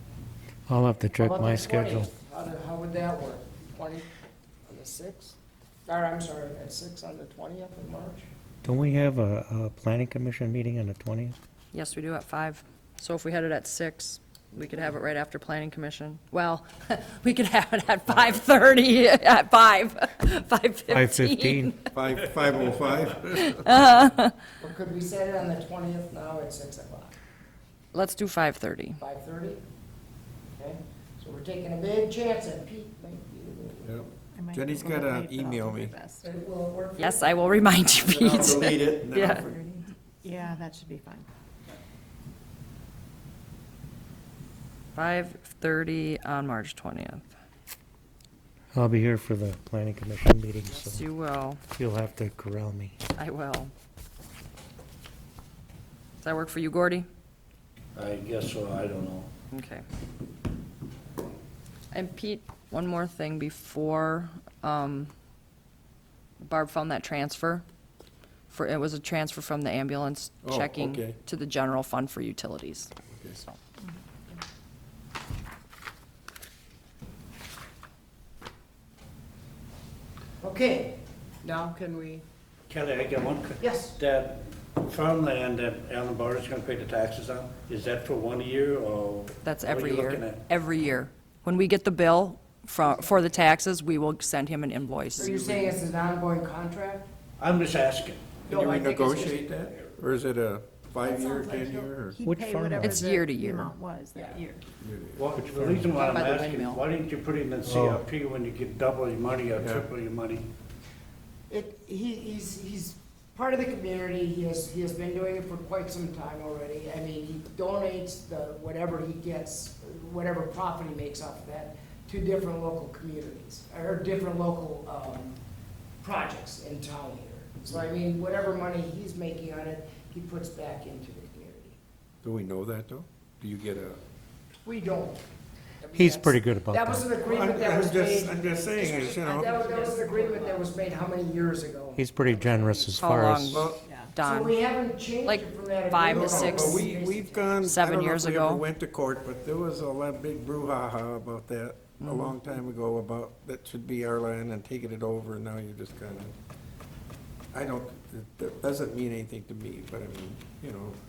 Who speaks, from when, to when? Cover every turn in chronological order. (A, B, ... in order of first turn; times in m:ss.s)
0:00.7-0:02.1 A
0:01.2-0:04.1 B
0:04.6-0:08.3 B
0:08.6-0:11.4 A
0:11.7-0:21.9 C
0:20.9-0:21.8 A
0:21.9-0:23.8 D
0:23.3-0:24.3 C
0:24.6-0:27.2 B
0:27.9-0:29.0 C
0:29.0-0:29.6 B
0:30.5-0:34.0 B
0:33.8-0:36.0 D
0:34.3-0:36.3 E
0:36.2-0:37.7 B
0:37.0-0:39.5 C
0:38.0-0:39.6 D
0:40.2-0:41.3 E
0:44.9-0:47.3 C
0:48.7-0:51.0 A
0:50.6-0:51.6 C
0:51.8-0:53.0 A
0:53.1-0:53.7 C
0:56.2-0:57.0 C
0:57.9-0:59.3 F
0:59.5-0:59.8 C
1:01.9-1:05.1 C
1:06.4-1:07.6 C
1:08.5-1:12.9 C
1:10.4-1:11.2 D
1:13.1-1:13.4 D
1:20.4-1:22.2 B
1:22.7-1:30.4 F
1:23.6-1:24.0 B
1:29.4-1:35.4 C
1:35.2-1:37.1 B
1:35.2-1:35.8 D
1:37.4-1:38.4 F
1:38.5-1:39.6 B
1:38.5-1:42.2 D
1:41.1-1:44.6 E
1:42.2-1:43.0 A
1:42.8-1:43.7 C
1:44.1-1:44.4 B
1:44.8-1:45.3 D
1:45.2-1:50.4 F
1:45.4-1:45.9 A
1:45.9-1:46.8 C
1:47.6-1:48.0 A
1:49.6-1:49.9 D
1:51.5-2:05.4 B
2:06.0-2:11.8 B
2:12.2-2:14.0 D
2:14.6-2:15.2 B
2:15.8-2:22.5 B
2:15.9-2:17.1 A
2:17.2-2:19.7 D
2:19.2-2:20.6 E
2:22.0-2:23.7 A
2:22.8-2:24.6 C
2:23.5-2:23.8 D
2:23.8-2:24.1 E
2:24.2-2:27.6 B
2:25.2-2:26.9 C
2:26.1-2:36.3 D
2:27.6-2:28.6 C
2:32.0-2:32.3 C
2:37.5-2:41.0 D